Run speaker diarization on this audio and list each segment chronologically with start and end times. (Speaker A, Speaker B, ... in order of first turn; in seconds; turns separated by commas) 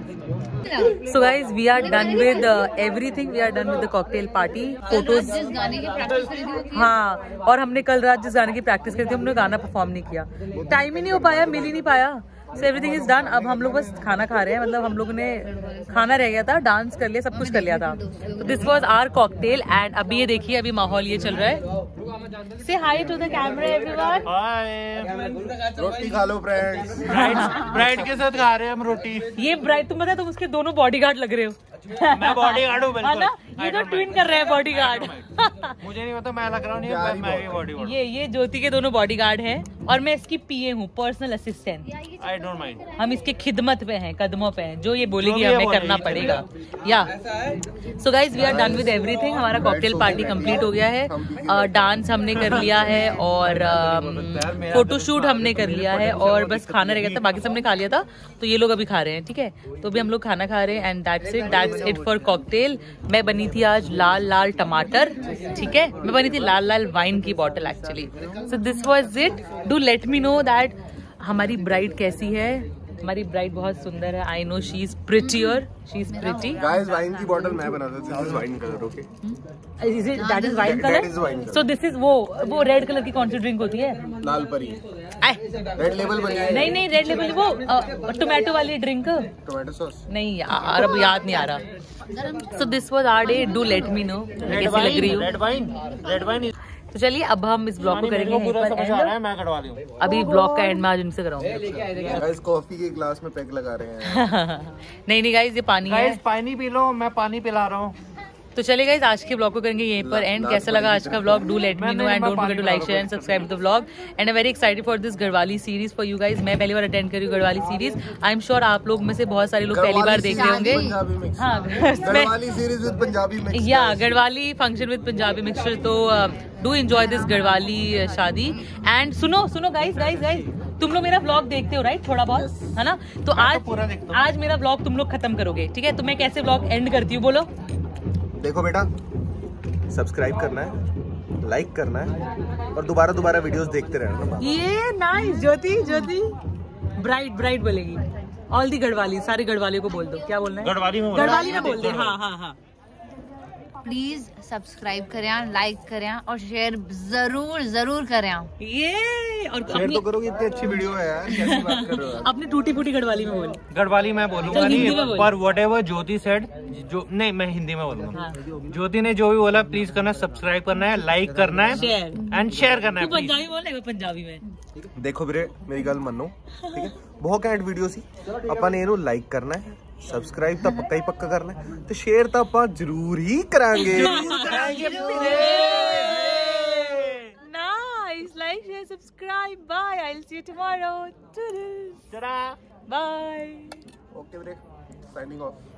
Speaker A: 0.6-1.0, Speaker B: 1.0-5.5, Speaker A: 1.8-2.6, Speaker A: 4.9-6.9, Speaker B: 6.7-21.6, Speaker A: 17.4-18.8, Speaker B: 22.6-24.3, Speaker C: 24.3-25.6, Speaker D: 25.8-27.6, Speaker C: 27.1-29.3, Speaker B: 27.1-27.8, Speaker B: 29.4-35.8, Speaker C: 32.0-38.0, Speaker D: 36.8-37.7, Speaker B: 37.8-42.0, Speaker C: 42.2-42.8, Speaker B: 43.0-47.1, Speaker C: 45.2-46.5, Speaker B: 47.9-76.6, Speaker D: 48.4-52.0, Speaker C: 52.4-52.7, Speaker C: 53.3-57.2, Speaker D: 61.5-62.0, Speaker A: 75.2-75.6, Speaker A: 76.1-77.4, Speaker D: 76.5-79.1, Speaker B: 79.2-84.0, Speaker A: 80.1-80.8, Speaker D: 80.6-81.6, Speaker D: 84.2-84.8, Speaker D: 85.8-86.8, Speaker B: 86.5-89.3, Speaker D: 89.5-90.0, Speaker B: 90.1-91.7, Speaker A: 90.7-91.5, Speaker A: 92.0-92.6, Speaker B: 92.5-95.3, Speaker A: 93.2-94.0, Speaker C: 94.4-96.5, Speaker B: 96.9-99.2, Speaker C: 97.8-100.0, Speaker B: 100.0-101.6, Speaker D: 101.6-104.3, Speaker C: 102.0-102.2, Speaker B: 104.0-106.2, Speaker C: 105.9-108.0, Speaker B: 108.5-122.4, Speaker D: 110.0-111.7, Speaker C: 111.8-113.4, Speaker D: 119.7-124.2, Speaker A: 120.2-121.0, Speaker B: 123.5-137.5, Speaker A: 127.3-127.7, Speaker C: 130.0-130.4, Speaker D: 132.3-132.8, Speaker C: 133.3-134.3, Speaker D: 138.4-138.9, Speaker D: 139.9-140.8, Speaker D: 141.4-142.1, Speaker D: 142.7-144.6, Speaker B: 144.4-146.4, Speaker B: 147.0-152.6, Speaker C: 150.6-152.2, Speaker A: 153.8-158.5, Speaker B: 158.6-160.1, Speaker D: 159.7-162.3, Speaker B: 161.3-163.6, Speaker C: 163.7-173.4, Speaker B: 164.5-165.3, Speaker B: 168.1-168.4, Speaker B: 171.7-172.3, Speaker B: 173.0-174.4, Speaker D: 175.0-184.6, Speaker B: 176.6-176.9, Speaker B: 183.8-192.0, Speaker C: 183.9-187.3, Speaker C: 192.1-192.6, Speaker B: 192.9-193.8, Speaker D: 194.1-195.6